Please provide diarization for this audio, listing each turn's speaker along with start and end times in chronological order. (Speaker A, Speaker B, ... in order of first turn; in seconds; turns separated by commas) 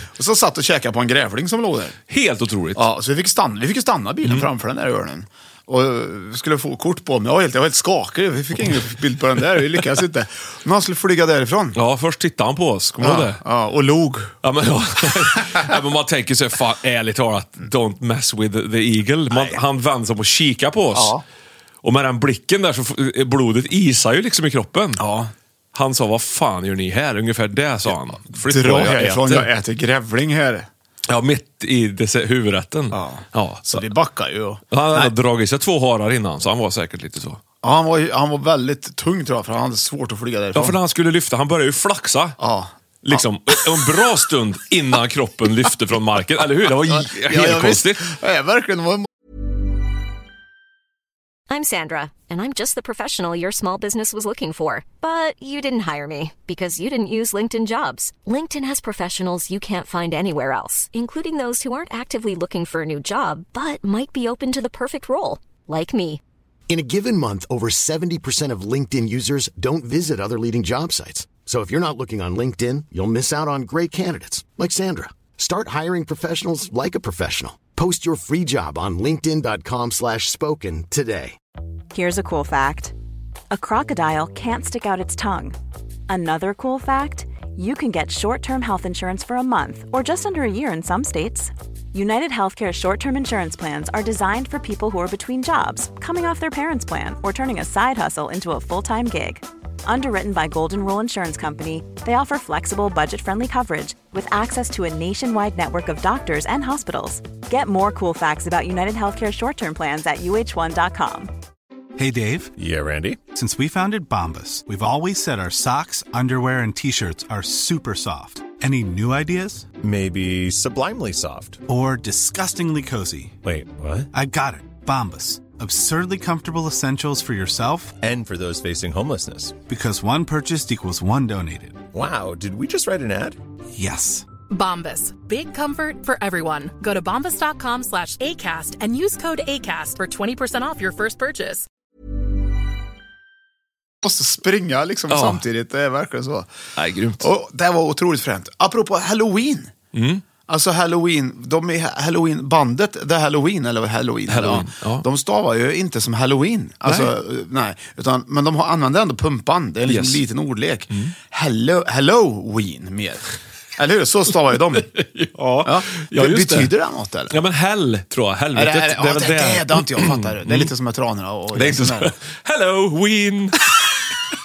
Speaker A: 0.2-2.0, Speaker B: 2.1-2.8, Speaker A: 2.8-11.8, Speaker B: 11.8-13.4, Speaker A: 13.0-14.3, Speaker B: 14.4-21.1, Speaker A: 15.3-15.7, Speaker A: 19.3-19.6, Speaker A: 20.9-21.2, Speaker B: 21.8-25.0, Speaker A: 25.0-25.3, Speaker B: 25.7-29.5, Speaker A: 28.4-30.7, Speaker B: 31.1-33.9, Speaker A: 32.9-35.1, Speaker B: 34.7-37.4, Speaker A: 37.6-40.8, Speaker B: 40.5-42.4, Speaker A: 42.4-44.0, Speaker B: 43.0-48.1, Speaker A: 46.6-49.1, Speaker C: 51.5-66.2, Speaker D: 66.7-81.4, Speaker E: 81.9-82.9, Speaker E: 83.5-85.6, Speaker E: 86.1-111.3, Speaker F: 112.0-112.5, Speaker G: 112.6-113.2, Speaker F: 113.3-119.7, Speaker G: 119.8-121.6, Speaker F: 121.7-123.4, Speaker G: 123.4-124.1, Speaker F: 124.1-127.9, Speaker G: 128.0-129.6, Speaker F: 129.7-131.8, Speaker G: 131.9-133.4, Speaker F: 133.8-134.3, Speaker H: 134.5-141.7, Speaker A: 144.0-146.5, Speaker B: 145.1-145.4, Speaker B: 146.8-147.3, Speaker A: 147.2-149.7, Speaker B: 149.9-150.2, Speaker A: 150.5-163.3, Speaker B: 154.3-155.1, Speaker B: 156.8-157.1, Speaker B: 159.9-160.2, Speaker B: 160.9-161.1, Speaker A: 163.8-164.9, Speaker B: 164.9-166.7, Speaker A: 165.6-167.4, Speaker B: 167.3-170.7, Speaker A: 168.6-172.1, Speaker B: 171.5-173.8